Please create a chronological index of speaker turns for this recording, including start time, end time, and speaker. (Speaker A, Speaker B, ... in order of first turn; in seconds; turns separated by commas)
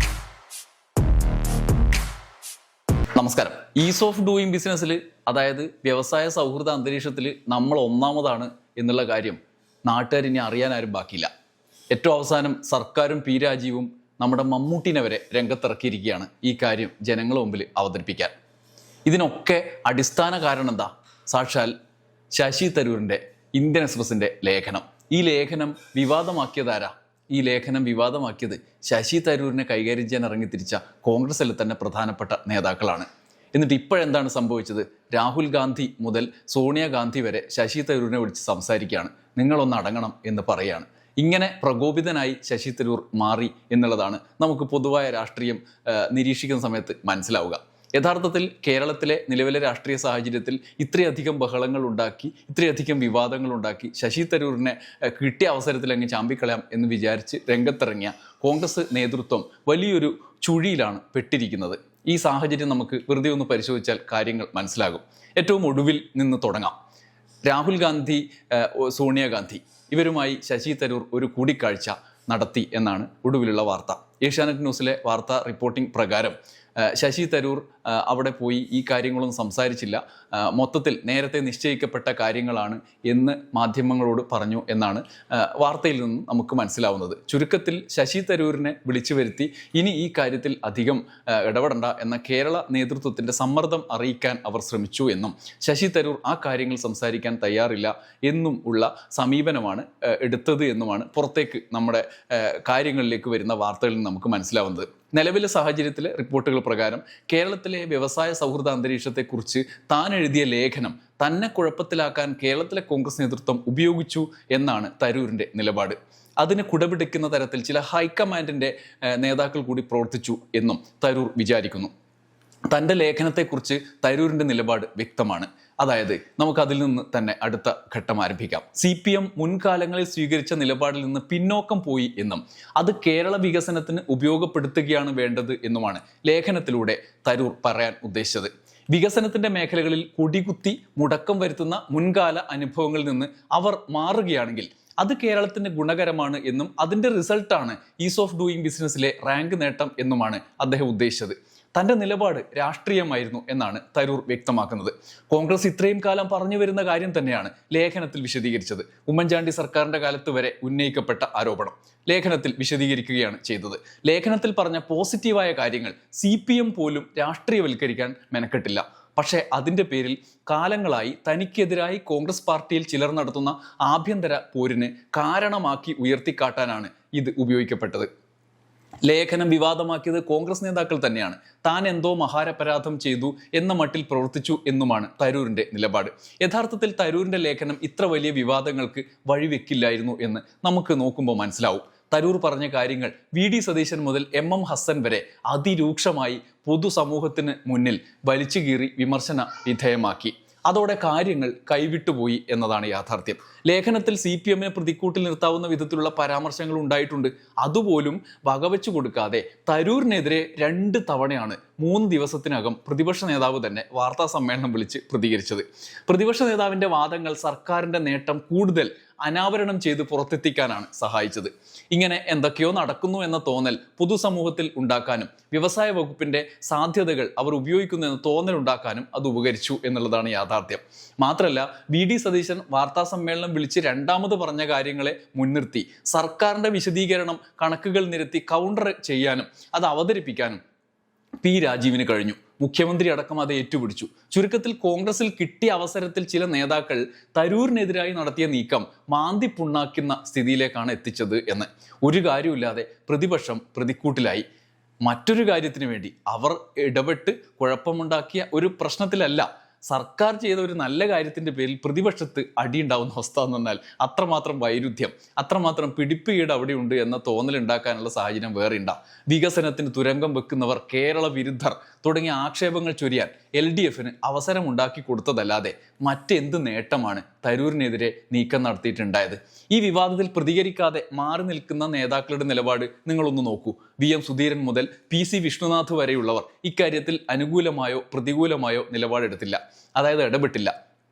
Speaker A: 3.1-11.3, Speaker A: 11.9-18.3, Speaker A: 19.1-21.7, Speaker A: 22.3-66.7, Speaker A: 67.5-121.9, Speaker A: 122.7-178.1, Speaker A: 179.0-240.6, Speaker A: 241.4-254.4, Speaker A: 255.0-290.7